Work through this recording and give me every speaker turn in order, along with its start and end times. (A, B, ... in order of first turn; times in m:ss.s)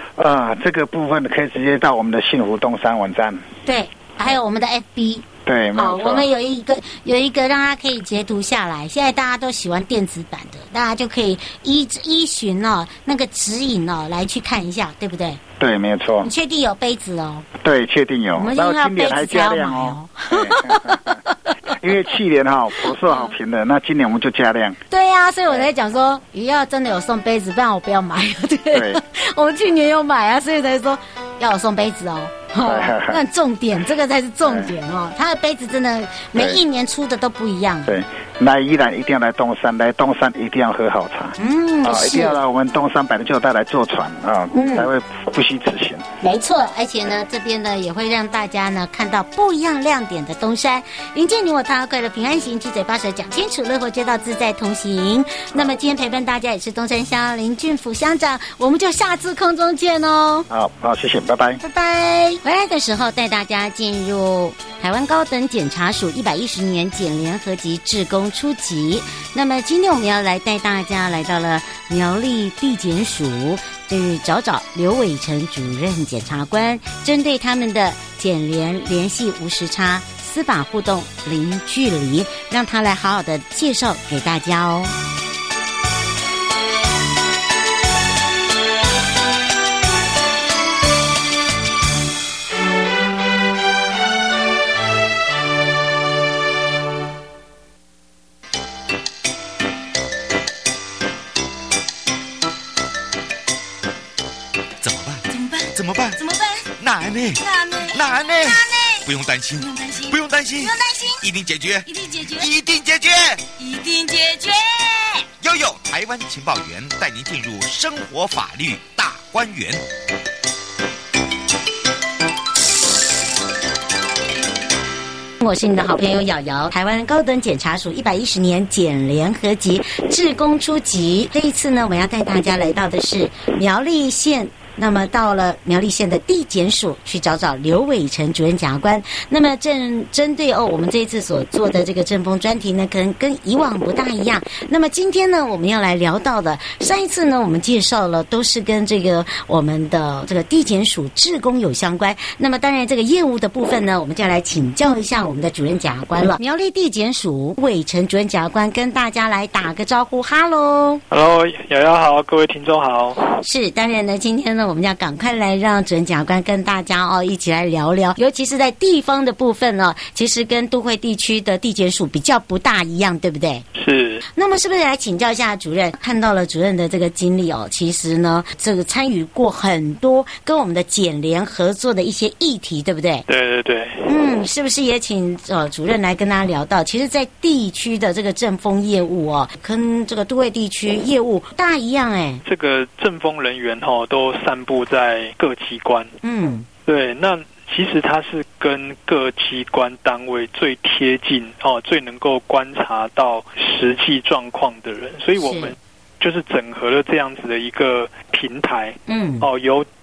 0:00.2-0:03.4 A
0:03.6-0:15.4 B
0:05.4-0:06.3 A
0:15.6-0:16.3 A
0:16.2-0:17.5 B
0:17.6-0:24.8 A
0:18.4-0:21.8 B
0:22.8-0:23.3 B
0:24.9-0:37.9 B
0:28.7-0:29.0 A
0:32.6-0:33.2 A
0:34.4-0:34.7 A
0:36.4-0:36.6 A
0:37.9-0:46.0 A
0:41.4-0:42.4 B
0:44.5-0:44.9 B
0:46.2-1:00.5 B
1:00.5-1:01.6 A
1:01.6-1:24.9 B
1:44.8-1:53.5 C
1:46.2-1:46.6 B
1:47.4-1:48.0 B
1:49.6-1:50.1 B
1:50.6-1:51.1 B
1:52.0-1:52.4 B
1:53.6-1:55.2 B
1:55.4-1:59.8 C
2:05.4-2:41.0 B
2:41.1-2:43.3 D
2:43.4-2:53.6 B
2:53.8-2:54.2 D
2:54.3-3:03.2 B
3:03.3-3:04.1 D
3:04.0-3:12.4 B
3:12.4-3:16.1 D
3:16.2-3:16.6 B
3:16.9-3:29.9 D
3:25.4-3:25.8 B
3:29.1-3:29.5 B